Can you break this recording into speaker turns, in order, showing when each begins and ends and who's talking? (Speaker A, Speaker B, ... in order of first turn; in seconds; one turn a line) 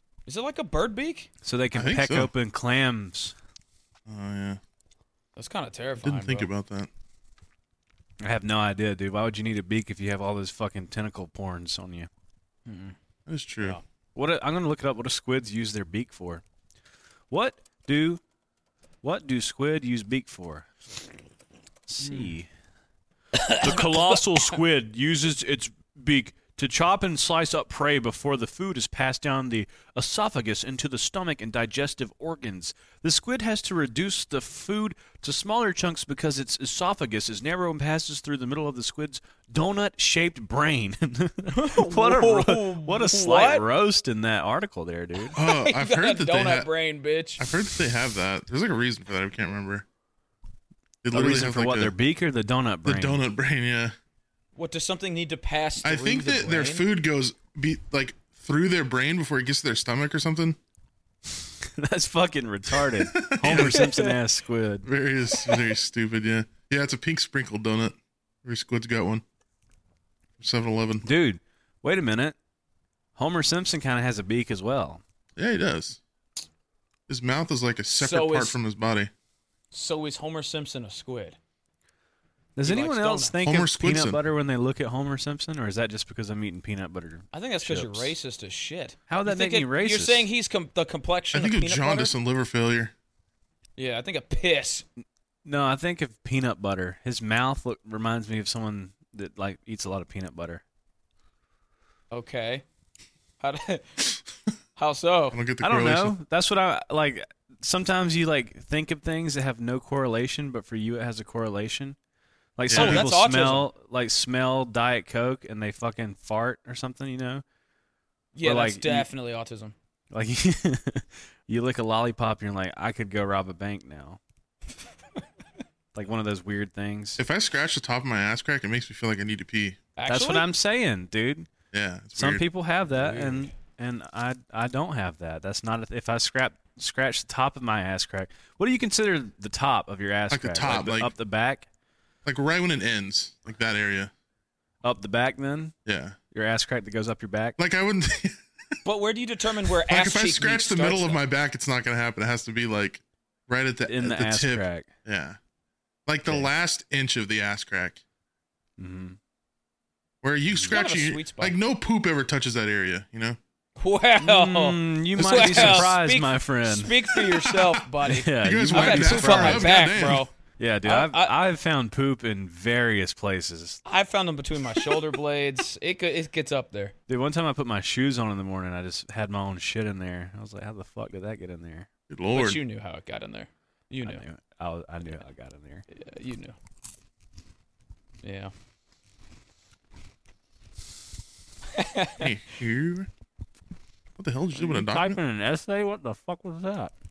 Speaker A: 0.2-1.3
Speaker B: 1.4-3.3
Speaker C: 1.7-2.3
Speaker C: 4.1-4.6
Speaker A: 5.4-6.5
Speaker C: 6.0-6.9
Speaker B: 8.2-12.1
Speaker A: 12.7-12.9
Speaker C: 13.3-13.8
Speaker B: 14.1-16.4
Speaker B: 17.3-18.2
Speaker B: 19.0-20.6
Speaker B: 21.9-22.5
Speaker A: 22.0-22.3
Speaker A: 23.4-24.2
Speaker B: 23.5-45.4
Speaker A: 41.5-43.6
Speaker A: 45.3-47.4
Speaker C: 45.4-46.7
Speaker C: 47.4-49.8
Speaker C: 51.0-51.9
Speaker B: 51.1-53.2
Speaker C: 52.8-53.9
Speaker A: 54.6-56.8
Speaker C: 55.8-60.6
Speaker B: 61.4-64.9
Speaker C: 62.8-63.9
Speaker A: 63.5-64.1
Speaker C: 64.8-69.2
Speaker C: 70.4-71.1
Speaker B: 71.0-72.3
Speaker B: 73.2-75.0
Speaker C: 75.4-76.0
Speaker C: 77.1-79.1
Speaker A: 77.9-78.6
Speaker A: 79.7-81.4
Speaker B: 82.6-88.1
Speaker A: 82.6-83.4
Speaker C: 83.4-84.2
Speaker A: 87.3-92.1
Speaker B: 89.1-90.2
Speaker C: 91.3-92.9
Speaker A: 93.8-94.9
Speaker B: 95.4-100.6
Speaker A: 102.1-102.6
Speaker A: 103.4-104.2
Speaker A: 104.8-105.4
Speaker C: 105.3-106.2
Speaker B: 105.6-112.0
Speaker B: 112.6-117.4
Speaker C: 112.7-113.0
Speaker A: 112.7-113.7
Speaker A: 118.3-119.7
Speaker B: 118.4-119.1
Speaker B: 120.1-124.2
Speaker B: 125.9-127.2
Speaker C: 127.2-129.8
Speaker A: 130.0-130.5
Speaker B: 130.1-131.5
Speaker C: 131.7-132.4
Speaker B: 132.2-141.7
Speaker A: 132.9-133.5
Speaker C: 140.3-141.1
Speaker C: 142.2-144.1
Speaker B: 144.8-145.7
Speaker C: 145.8-146.2
Speaker B: 146.3-147.6
Speaker C: 147.6-148.4
Speaker A: 148.8-151.2
Speaker C: 149.8-155.4
Speaker B: 153.9-154.9
Speaker C: 156.1-158.0
Speaker B: 158.8-159.2
Speaker C: 160.2-163.4
Speaker B: 160.5-160.8
Speaker A: 160.7-161.6
Speaker A: 163.8-170.3
Speaker B: 164.2-166.9
Speaker C: 165.2-166.0
Speaker C: 167.1-167.8
Speaker B: 168.1-173.8
Speaker C: 168.3-170.3
Speaker A: 170.8-171.4
Speaker A: 173.8-176.9
Speaker B: 177.1-181.9
Speaker C: 182.1-182.6
Speaker A: 182.3-184.2
Speaker B: 184.1-185.8
Speaker A: 185.9-186.6
Speaker A: 188.2-188.5
Speaker A: 191.7-192.3
Speaker C: 192.2-193.1
Speaker C: 194.2-195.2
Speaker D: 194.6-196.9